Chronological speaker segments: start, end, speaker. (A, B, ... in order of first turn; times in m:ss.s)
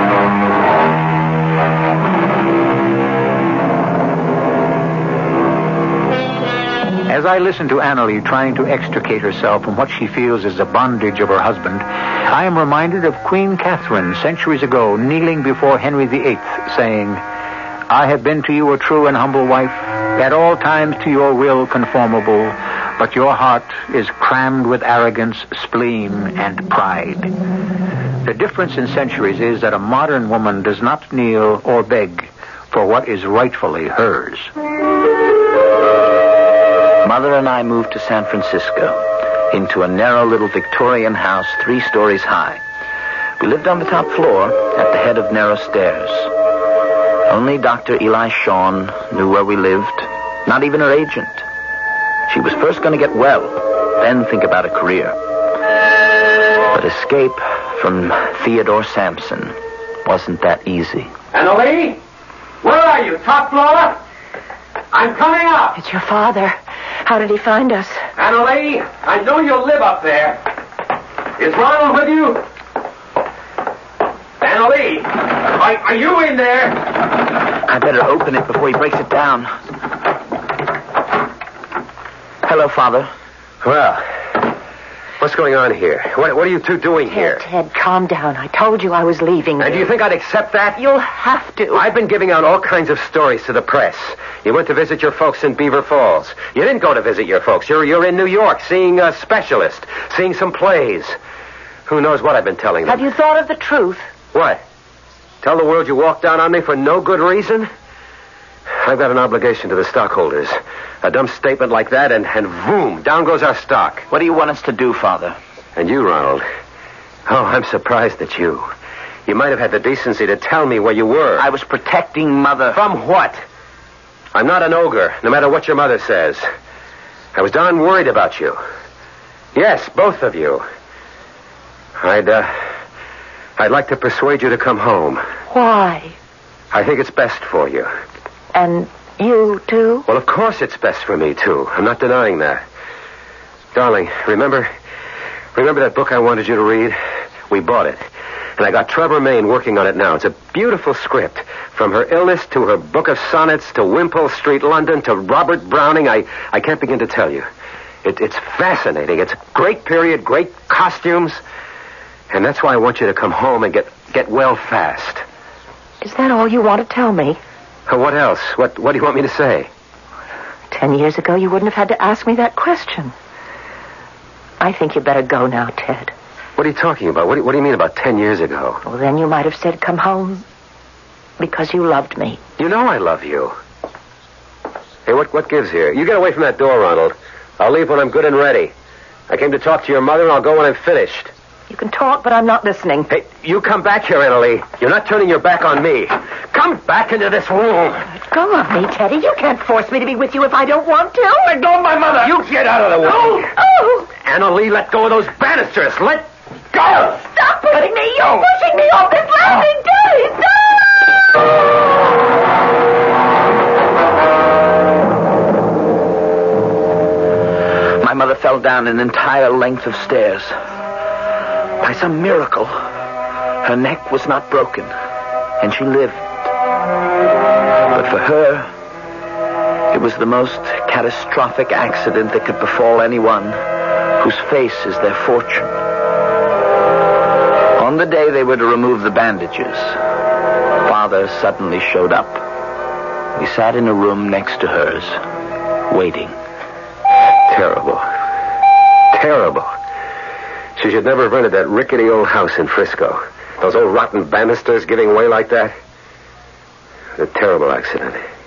0:07.1-0:17.2 A
0:17.9-0:27.3 A
0:28.2-0:34.5 A
0:37.0-0:42.6 B
0:43.4-0:46.3 B
0:47.3-0:51.4 B
0:52.3-0:55.2 B
0:56.7-1:01.1 B
1:01.3-1:02.0 C
1:02.6-1:04.0 C
1:04.9-1:05.8 C
1:05.8-1:08.0 D
1:08.2-1:10.4 C
1:11.4-1:12.4 C
1:14.4-1:17.0 C
1:17.6-1:19.6 B
1:22.4-1:23.1 B
1:23.6-1:24.2 C
1:25.2-1:27.4 C
1:27.0-1:29.9 D
1:29.6-1:30.8 C
1:30.8-1:31.8 D
1:31.7-1:41.2 C
1:41.9-1:43.0 C
1:42.8-1:44.1 D
1:44.3-1:44.6 C
1:45.4-1:47.7 C
1:48.8-1:54.0 C
1:54.1-1:55.4 B
1:55.8-1:56.4 C
1:57.2-1:58.7 C
1:59.3-2:01.4 C
2:01.4-2:02.8 B
2:02.7-2:03.4 C
2:04.3-2:06.5 C
2:07.3-2:08.6 C
2:09.5-2:10.6 C
2:12.0-2:12.6 C
2:13.6-2:15.2 C
2:15.5-2:16.1 D
2:16.7-2:17.9 C
2:18.5-2:20.1 D
2:20.1-2:22.6 C
2:23.7-2:24.7 C
2:25.5-2:27.0 C
2:27.5-2:28.0 C
2:28.6-2:37.5 C
2:38.0-2:41.4 C
2:42.3-2:45.2 C
2:46.0-2:47.4 D
2:47.9-2:49.7 C
2:50.7-2:53.1 D
2:54.6-2:56.1 D
2:56.6-2:58.8 C
2:58.8-3:00.4 D
3:01.4-3:02.4 D
3:02.6-3:03.6 C
3:05.0-3:08.7 C
3:09.3-3:11.3 C
3:11.7-3:13.1 D
3:13.1-3:18.1 C
3:18.1-3:22.1 D
3:22.2-3:23.5 C
3:23.1-3:24.1 D
3:24.2-3:27.1 C
3:26.8-3:30.8 D
3:38.0-3:40.6 B
3:41.8-3:42.9 B
3:43.6-3:44.9 B
3:45.6-3:46.3 B
3:47.9-3:48.7 B
3:49.9-3:53.6 B
3:54.2-3:55.7 B
3:57.8-4:00.0 B
4:00.8-4:02.4 B
4:03.4-4:05.2 B
4:05.9-4:06.4 B
4:07.5-4:08.1 C
4:09.1-4:09.7 C
4:10.8-4:15.7 C
4:17.2-4:18.2 C